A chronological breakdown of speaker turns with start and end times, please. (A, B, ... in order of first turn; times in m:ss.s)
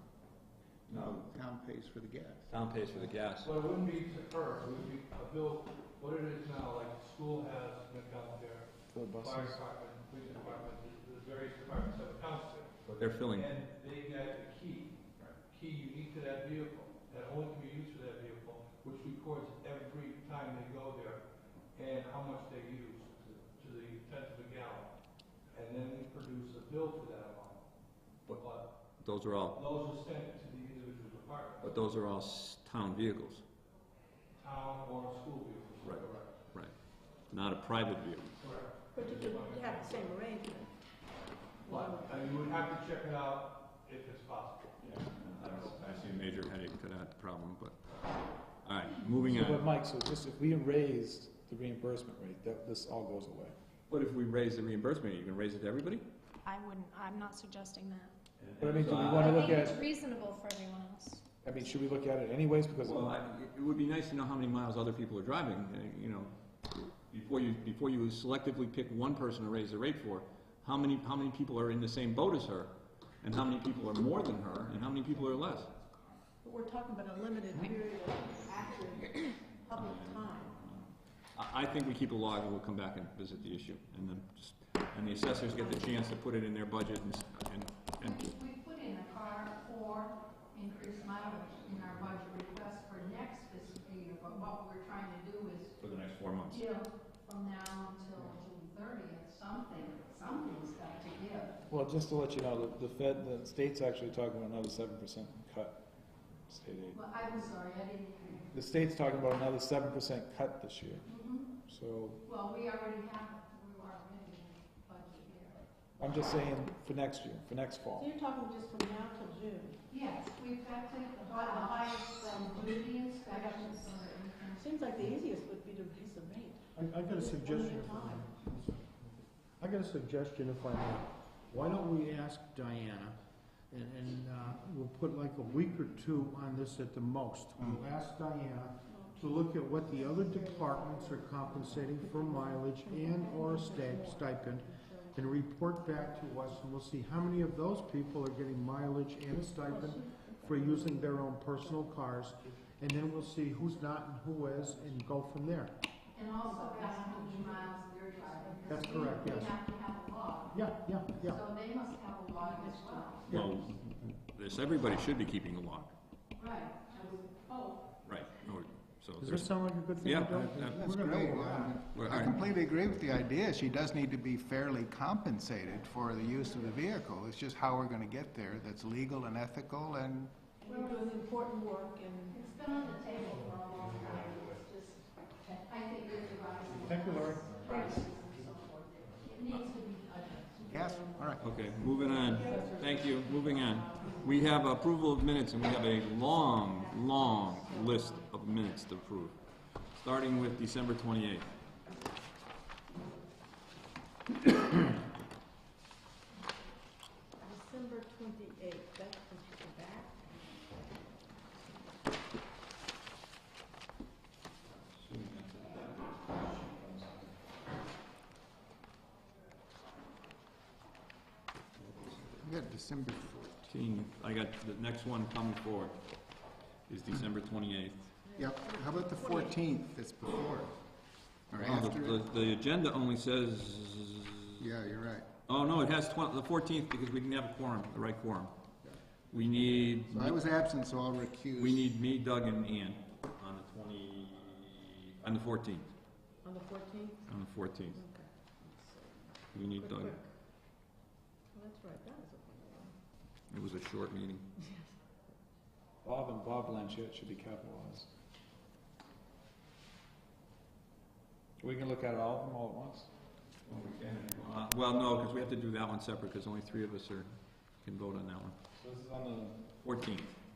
0:00.9-0:02.5 A
0:02.5-0:03.5 B
0:03.4-0:24.9 C
0:08.9-0:09.6 D
0:12.8-0:13.5 B
0:25.5-0:27.7 C
0:28.3-0:28.7 C
0:29.0-0:29.6 B
0:29.5-0:31.8 C
0:31.6-0:33.4 B
0:34.4-0:36.4 C
0:35.8-0:36.7 B
0:37.3-0:38.3 B
0:38.4-0:40.6 C
0:38.9-0:40.7 E
0:41.6-0:42.4 E
0:41.6-0:46.1 C
0:44.8-0:47.8 B
0:48.6-0:49.7 B
0:49.3-0:53.5 D
0:53.9-0:56.0 B
0:56.4-0:58.1 F
0:58.4-0:59.4 B
0:58.6-0:59.8 D
0:59.1-1:01.2 F
1:01.4-1:03.1 D
1:02.8-1:06.4 B
1:07.1-1:15.7 B
1:16.4-1:20.5 E
1:19.7-1:28.2 B
1:28.0-1:35.8 G
1:35.8-1:36.6 B
1:36.5-1:41.6 G
1:41.7-1:45.8 D
1:46.5-1:47.0 D
1:46.9-1:48.5 G
1:48.5-1:51.1 D
1:51.1-1:51.6 G
1:51.6-1:52.2 D
1:52.2-1:55.7 G
1:56.0-1:58.1 D
1:58.0-1:59.8 E
1:59.9-2:05.1 G
2:01.3-2:03.9 E
2:04.5-2:08.3 E
2:06.7-2:09.1 H
2:09.6-2:13.2 H
2:13.7-2:35.8 H
2:18.9-2:26.5 E
2:29.6-2:35.1 E
2:36.1-2:43.3 G
2:36.4-2:39.2 E
2:38.7-2:39.5 H
2:40.5-2:41.4 H
2:42.4-2:43.3 E
2:43.2-2:45.9 B
2:46.4-2:47.9 G
2:48.0-2:49.5 B
2:49.2-2:52.5 H
2:50.0-2:50.9 B
2:50.7-3:00.5 A
2:51.8-2:52.5 B
2:55.7-2:56.9 G
3:00.6-3:01.3 G
3:00.6-3:02.4 E
3:02.3-3:10.8 G
3:06.8-3:07.6 H
3:07.6-3:08.5 E
3:10.6-3:14.8 E
3:10.6-3:11.6 A
3:11.4-3:21.6 B
3:16.3-3:18.6 E
3:27.4-3:30.2 E
3:34.9-3:37.1 B
3:41.8-3:42.4 B
3:42.4-3:43.7 A
3:43.7-3:46.0 B
3:46.9-3:48.2 B
3:48.3-3:49.6 E
3:48.4-3:50.8 A
3:51.5-3:52.3 A
3:51.6-3:54.7 B
3:54.6-3:55.3 A
3:55.5-3:58.6 B
3:59.3-4:00.4 B
4:00.0-4:02.0 A
4:01.6-4:05.9 B
4:06.4-4:07.3 E
4:07.3-4:08.0 B
4:07.9-4:10.3 E
4:09.5-4:10.2 B
4:11.5-4:13.0 E
4:13.5-4:14.5 B
4:14.6-4:14.9 E
4:16.0-4:18.1 D
4:21.6-4:23.1 D
4:23.6-4:28.6 B
4:28.8-4:29.6 D
4:29.8-4:30.4 B